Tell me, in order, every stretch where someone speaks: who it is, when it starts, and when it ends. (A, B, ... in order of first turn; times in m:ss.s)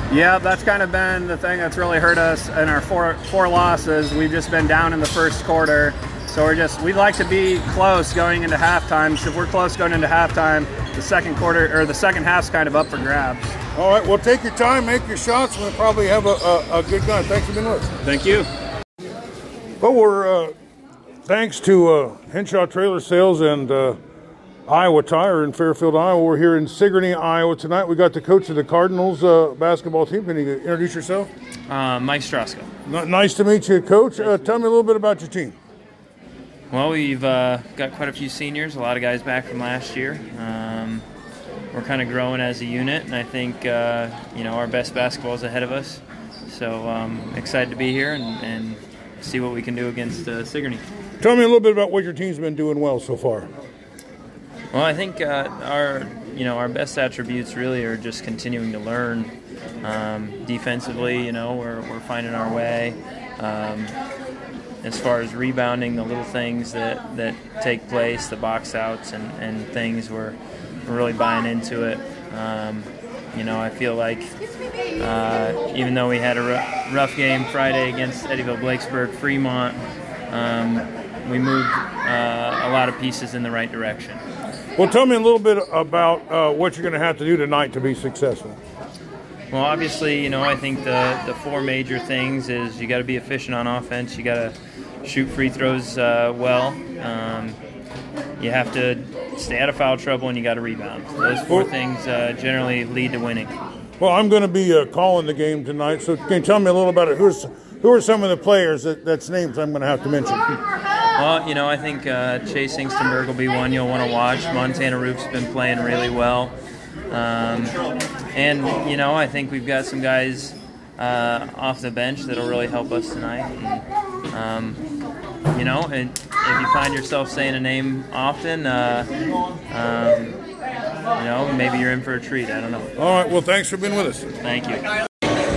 0:00.1-0:13.5 A
0:13.7-0:17.9 B
0:18.0-0:18.5 A
0:19.8-0:20.5 B
0:21.2-0:24.0 B
0:24.7-0:31.3 B
0:31.7-0:32.7 C
0:32.8-0:35.6 B
0:34.2-0:34.5 C
0:36.7-0:41.0 C
0:41.7-0:50.8 C
0:51.2-0:53.5 B
0:54.7-1:04.0 C
1:04.8-1:14.3 C
1:15.0-1:24.2 C
1:24.8-1:28.6 B
1:29.5-1:37.6 C
1:38.4-1:43.5 C
1:44.0-1:50.5 B
1:51.2-1:56.6 C
1:57.1-1:57.8 C
1:58.3-2:04.8 C
2:05.5-2:09.1 C
2:09.7-2:10.4 C
2:11.2-2:12.9 C
2:13.0-2:14.3 B
2:14.4-2:14.9 C